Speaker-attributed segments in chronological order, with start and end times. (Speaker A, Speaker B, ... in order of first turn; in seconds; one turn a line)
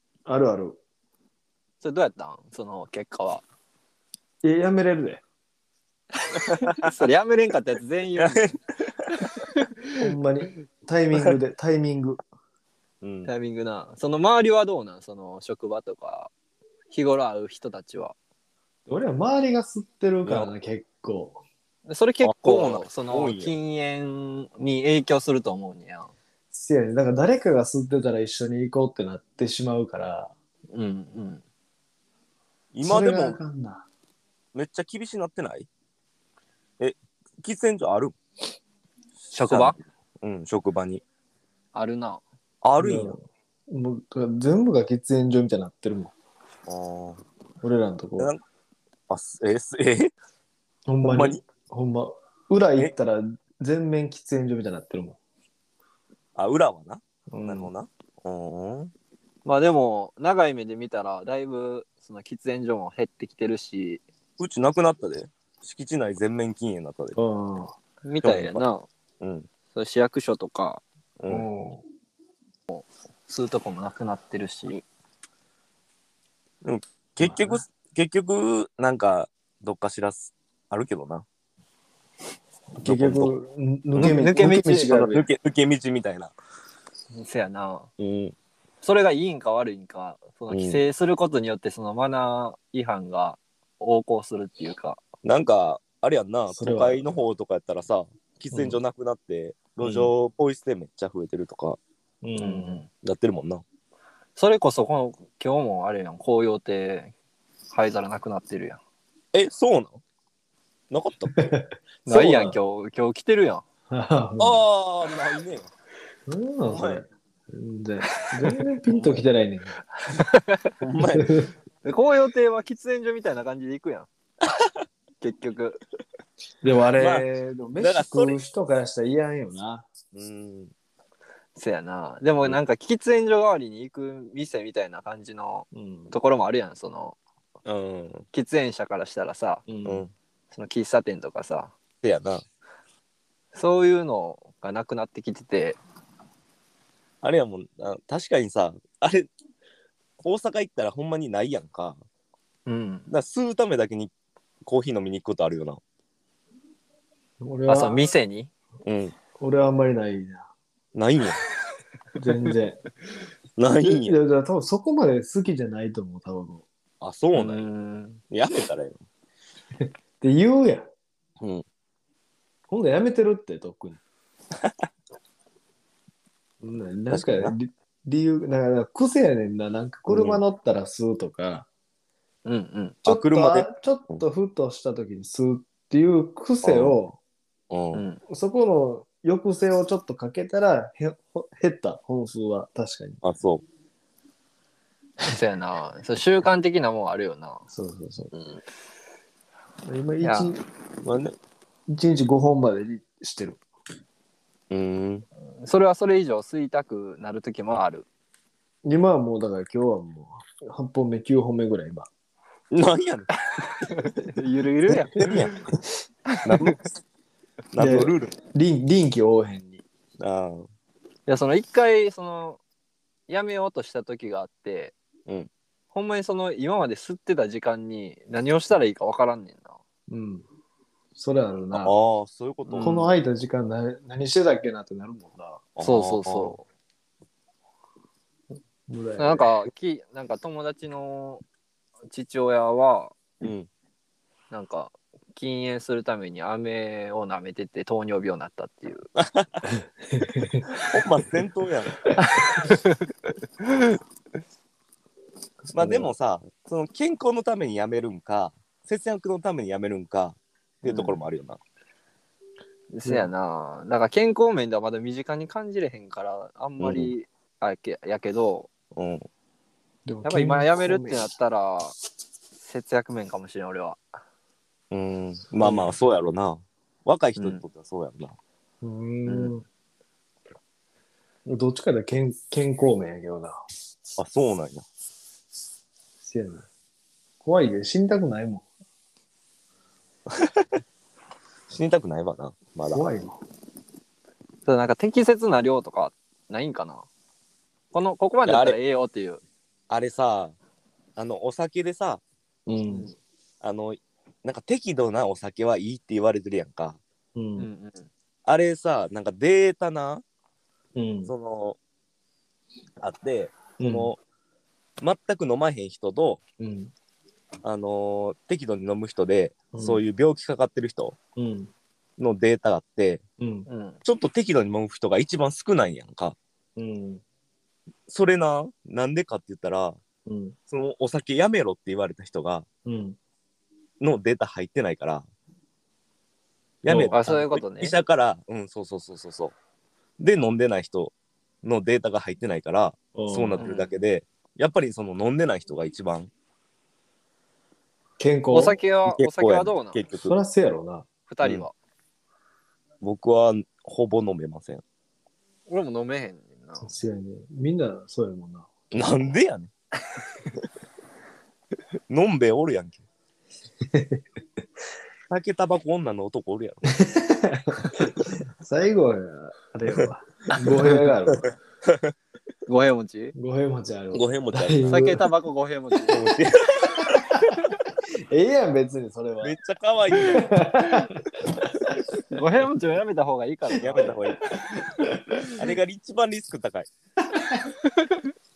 Speaker A: 0.3-0.8
Speaker B: 1.8-3.4
Speaker A: 4.4-5.2
Speaker B: 6.3-8.5
Speaker C: 6.4-6.9
Speaker C: 8.2-9.2
Speaker A: 10.0-12.2
Speaker C: 13.0-13.3
Speaker B: 13.2-16.3
Speaker B: 16.9-18.1
Speaker A: 18.9-21.4
Speaker C: 20.2-20.5
Speaker B: 21.9-26.1
Speaker C: 22.2-23.6
Speaker A: 26.5-30.3
Speaker B: 30.7-31.4
Speaker C: 32.7-33.4
Speaker A: 32.8-33.9
Speaker C: 34.5-35.7
Speaker C: 36.8-38.1
Speaker B: 39.3-39.8
Speaker C: 39.5-41.0
Speaker B: 41.7-42.2
Speaker C: 42.6-43.2
Speaker A: 42.8-46.1
Speaker C: 46.7-47.2
Speaker A: 47.6-48.3
Speaker C: 49.1-50.1
Speaker A: 50.9-55.2
Speaker C: 51.0-51.4
Speaker C: 56.4-58.9
Speaker A: 57.3-57.7
Speaker B: 59.5-64.0
Speaker C: 64.4-67.2
Speaker A: 67.2-67.8
Speaker B: 68.0-68.9
Speaker C: 68.2-68.6
Speaker C: 69.2-69.5
Speaker B: 69.7-70.8
Speaker C: 71.2-71.5
Speaker A: 71.3-71.8
Speaker B: 72.7-74.8
Speaker C: 76.6-81.2
Speaker A: 77.2-77.6
Speaker A: 82.8-85.3
Speaker C: 82.8-83.3
Speaker C: 84.0-86.3
Speaker B: 84.0-84.8
Speaker B: 87.1-87.9
Speaker C: 88.0-88.3
Speaker B: 88.8-95.0
Speaker C: 90.5-90.8
Speaker C: 95.2-101.8
Speaker A: 96.5-97.0
Speaker A: 98.5-98.8
Speaker A: 99.8-100.1
Speaker A: 102.2-102.8
Speaker B: 102.4-102.9
Speaker C: 103.0-103.6
Speaker B: 104.4-107.1
Speaker B: 107.7-108.8
Speaker C: 109.3-110.0
Speaker C: 110.9-111.4
Speaker A: 111.3-112.6
Speaker B: 112.1-113.7
Speaker A: 113.9-114.6
Speaker C: 114.4-115.7
Speaker A: 116.3-119.8
Speaker C: 116.7-117.0
Speaker C: 118.9-119.2
Speaker B: 120.2-120.7
Speaker C: 120.8-121.5
Speaker A: 121.1-121.5
Speaker B: 121.8-124.1
Speaker B: 125.2-125.8
Speaker A: 126.6-129.9
Speaker C: 127.0-127.3
Speaker C: 127.8-128.4
Speaker C: 130.1-130.7
Speaker B: 131.6-137.2
Speaker A: 135.7-136.1
Speaker C: 137.7-138.3
Speaker B: 138.3-139.7
Speaker A: 139.7-140.1
Speaker C: 139.8-140.1
Speaker B: 140.5-141.7
Speaker C: 142.0-142.4
Speaker B: 143.5-145.8
Speaker C: 147.2-149.3
Speaker C: 150.2-152.0
Speaker B: 152.7-153.1
Speaker C: 153.1-154.1
Speaker C: 154.7-155.8
Speaker A: 157.4-158.1
Speaker B: 157.7-158.5
Speaker C: 158.8-159.2
Speaker A: 159.4-160.5
Speaker C: 160.9-161.4
Speaker A: 162.2-162.8
Speaker C: 163.6-164.2
Speaker A: 163.8-166.7
Speaker C: 167.0-167.7
Speaker B: 167.3-168.2
Speaker C: 168.3-169.0
Speaker A: 169.8-170.9
Speaker A: 172.7-174.0
Speaker A: 176.6-181.7
Speaker C: 177.1-177.5
Speaker C: 180.1-180.4
Speaker B: 182.4-183.0
Speaker A: 183.1-187.2
Speaker C: 183.1-184.2
Speaker C: 186.6-187.0
Speaker C: 187.7-188.0
Speaker B: 187.9-188.2
Speaker A: 188.3-193.2
Speaker C: 193.2-193.6
Speaker B: 195.2-197.7
Speaker A: 197.7-198.3
Speaker A: 199.8-200.6
Speaker B: 200.2-200.5
Speaker C: 201.0-201.3
Speaker A: 201.9-203.6
Speaker C: 204.7-205.2
Speaker B: 205.6-208.1
Speaker A: 208.8-212.1
Speaker C: 212.7-213.3
Speaker B: 213.9-215.6
Speaker C: 215.1-215.6
Speaker B: 216.3-216.7
Speaker C: 216.4-216.8
Speaker C: 217.7-218.3
Speaker A: 217.8-219.8
Speaker C: 220.2-220.7
Speaker B: 221.3-222.6
Speaker B: 223.3-224.9
Speaker B: 225.9-229.8
Speaker A: 230.1-230.5
Speaker A: 231.2-231.9
Speaker C: 231.7-233.0
Speaker B: 232.7-233.1
Speaker A: 232.8-235.6
Speaker C: 235.8-236.6
Speaker B: 235.8-236.6
Speaker A: 238.9-239.5
Speaker B: 239.2-241.4
Speaker B: 242.1-243.2
Speaker C: 243.4-243.7
Speaker B: 244.5-249.1
Speaker C: 249.2-249.7
Speaker A: 250.1-250.8
Speaker C: 250.8-252.1
Speaker B: 252.5-252.9
Speaker C: 255.7-261.6
Speaker A: 255.8-256.1
Speaker B: 260.9-261.2
Speaker B: 262.9-268.7
Speaker C: 266.8-267.1
Speaker C: 268.9-269.2
Speaker A: 270.1-271.2
Speaker B: 270.2-271.9
Speaker B: 272.6-274.0
Speaker C: 274.9-278.4
Speaker B: 275.6-275.9
Speaker B: 277.4-277.6
Speaker A: 278.8-279.6
Speaker B: 279.3-279.5
Speaker A: 281.5-283.6
Speaker C: 284.2-284.8
Speaker A: 286.2-286.7
Speaker A: 287.4-288.7
Speaker C: 290.3-290.7
Speaker C: 291.7-293.1
Speaker A: 292.9-293.4
Speaker B: 294.7-297.1
Speaker B: 297.9-299.4
Speaker C: 298.5-298.8
Speaker C: 299.9-300.6
Speaker C: 301.2-302.2
Speaker A: 302.7-303.1
Speaker B: 302.9-303.1
Speaker C: 303.6-307.0
Speaker A: 307.4-307.7
Speaker B: 307.6-308.1
Speaker C: 308.5-310.2
Speaker A: 310.9-311.3
Speaker C: 311.3-311.8
Speaker C: 313.0-314.2
Speaker A: 313.8-314.1
Speaker C: 315.0-316.4
Speaker A: 316.6-316.9
Speaker C: 317.6-321.2
Speaker A: 319.7-320.0
Speaker A: 321.4-321.7
Speaker C: 322.2-323.2
Speaker A: 323.4-323.7
Speaker B: 323.7-324.0
Speaker C: 324.0-326.4
Speaker A: 326.8-327.2
Speaker C: 328.1-330.0
Speaker A: 330.3-330.6
Speaker C: 330.7-332.6
Speaker A: 332.9-333.2
Speaker C: 334.0-335.3
Speaker C: 336.8-339.5
Speaker A: 336.9-337.2
Speaker B: 336.9-338.0
Speaker C: 340.2-346.3
Speaker A: 343.1-343.6
Speaker B: 343.6-343.9
Speaker A: 348.2-348.8
Speaker B: 348.5-350.0
Speaker C: 349.1-350.3
Speaker A: 350.2-351.1
Speaker B: 351.3-351.7
Speaker C: 353.0-354.8
Speaker B: 355.7-356.9
Speaker A: 356.8-358.7
Speaker C: 358.9-359.7
Speaker C: 362.1-363.0
Speaker A: 363.9-364.2
Speaker C: 365.3-366.9
Speaker A: 366.9-368.0
Speaker A: 368.6-371.5
Speaker C: 369.9-370.5
Speaker C: 371.3-372.1
Speaker B: 372.7-373.3
Speaker A: 373.4-375.2
Speaker C: 374.1-375.1
Speaker B: 374.9-376.2
Speaker C: 376.1-377.7
Speaker A: 376.9-377.5
Speaker A: 378.3-379.6
Speaker C: 379.4-380.5
Speaker A: 380.1-381.2
Speaker B: 382.3-384.2
Speaker C: 383.8-384.4
Speaker A: 384.7-385.3
Speaker C: 385.5-386.9
Speaker B: 388.0-388.2